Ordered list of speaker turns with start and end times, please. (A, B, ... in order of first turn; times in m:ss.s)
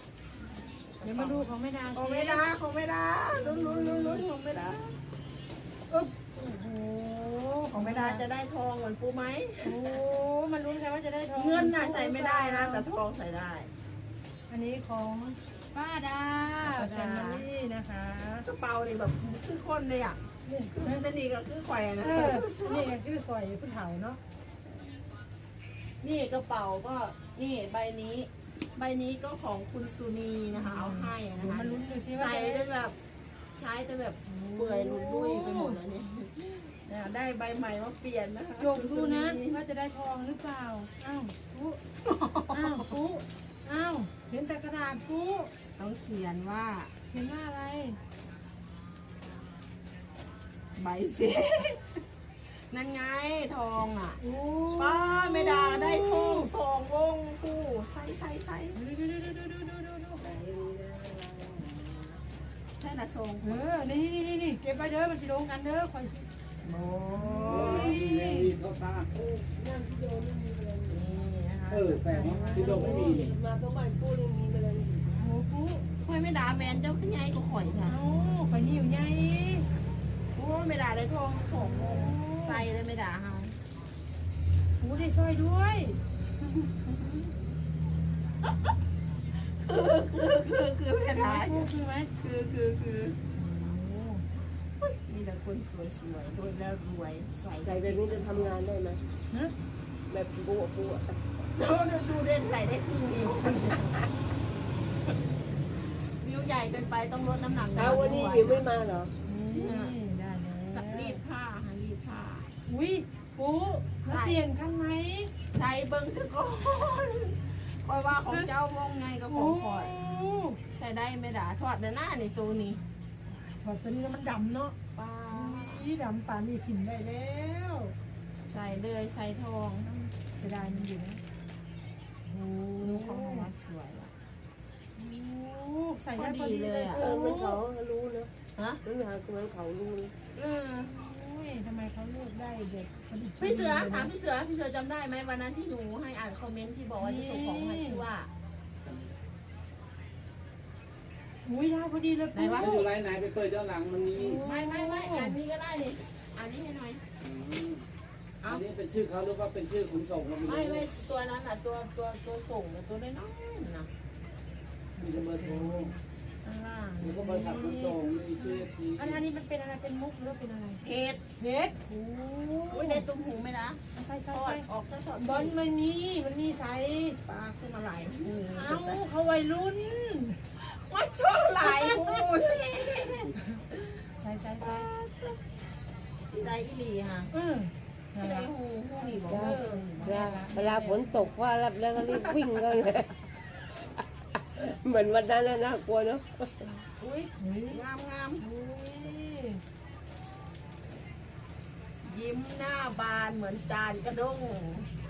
0:00.4-0:05.0 A
0:01.0-0:02.4 B
0:03.3-0:04.2 B
0:05.9-0:08.2 B
0:07.7-0:09.9 A
0:09.6-0:12.9 B
0:11.3-0:13.7 A
0:14.5-0:18.5 B
0:16.6-0:17.4 A
0:18.4-0:22.9 A
0:20.4-0:21.0 B
0:22.0-0:24.2 B
0:26.0-0:33.0 A
0:30.5-0:32.6 B
0:33.6-0:39.6 A
0:34.2-0:35.8 B
0:38.6-0:41.8 B
0:42.0-0:43.0 A
0:42.5-0:45.5 B
0:45.8-0:46.9 A
0:47.1-0:48.0 B
0:50.8-0:54.2 A
0:54.2-0:56.5 B
0:54.8-0:58.8 A
0:58.7-1:00.2 B
1:00.2-1:02.2 C
1:02.8-1:03.6 A
1:03.4-1:06.3 B
1:06.6-1:08.0 A
1:07.2-1:08.5 B
1:07.4-1:09.1 D
1:09.1-1:11.0 C
1:10.9-1:13.1 A
1:11.7-1:13.4 D
1:12.5-1:15.3 C
1:15.1-1:15.8 B
1:16.0-1:18.0 A
1:17.8-1:19.7 B
1:20.3-1:23.6 A
1:21.5-1:22.6 B
1:24.8-1:26.0 B
1:26.6-1:27.2 A
1:29.3-1:33.2 A
1:31.1-1:32.1 B
1:33.3-1:34.2 B
1:34.8-1:38.6 A
1:37.6-1:39.0 C
1:40.1-1:41.2 C
1:41.5-1:44.0 A
1:46.1-1:48.6 A
1:47.7-1:49.1 C
1:49.3-1:51.2 B
1:49.5-1:49.9 A
1:50.6-1:52.5 A
1:52.6-1:55.3 B
1:54.0-1:54.4 A
1:55.5-2:00.0 A
1:59.3-2:00.6 B
2:00.7-2:02.8 A
2:03.5-2:04.8 B
2:04.9-2:05.9 A
2:05.3-2:07.9 B
2:08.5-2:10.1 A
2:10.4-2:11.2 B
2:12.2-2:13.5 B
2:12.8-2:14.1 A
2:15.0-2:17.6 B
2:16.1-2:17.0 A
2:16.9-2:18.3 C
2:18.6-2:18.8 A
2:18.8-2:20.1 C
2:20.3-2:20.9 A
2:20.8-2:24.1 B
2:23.4-2:28.3 A
2:27.0-2:28.0 B
2:31.4-2:32.7 B
2:32.3-2:32.9 A
2:32.6-2:34.4 D
2:34.1-2:35.4 B
2:34.1-2:37.0 A
2:37.2-2:37.8 D
2:38.4-2:40.8 D
2:40.4-2:43.9 A
2:45.0-2:45.9 D
2:45.4-2:46.0 B
2:46.4-2:47.6 A
2:47.0-2:49.2 D
2:47.2-2:50.8 B
2:50.8-2:51.2 A
2:51.4-2:53.1 B
2:52.7-2:55.6 A
2:53.9-2:54.6 B
2:55.2-2:57.2 B
2:57.2-2:59.0 A
2:58.5-3:00.4 B
3:00.6-3:04.0 A
3:01.6-3:03.6 B
3:04.2-3:04.9 B
3:04.6-3:05.4 A
3:06.3-3:07.3 A
3:07.3-3:08.5 B
3:08.2-3:10.2 A
3:09.0-3:11.3 B
3:09.3-3:13.2 C
3:14.5-3:16.6 C
3:16.8-3:18.4 A
3:17.4-3:17.8 B
3:18.4-3:19.6 B
3:22.0-3:24.9 A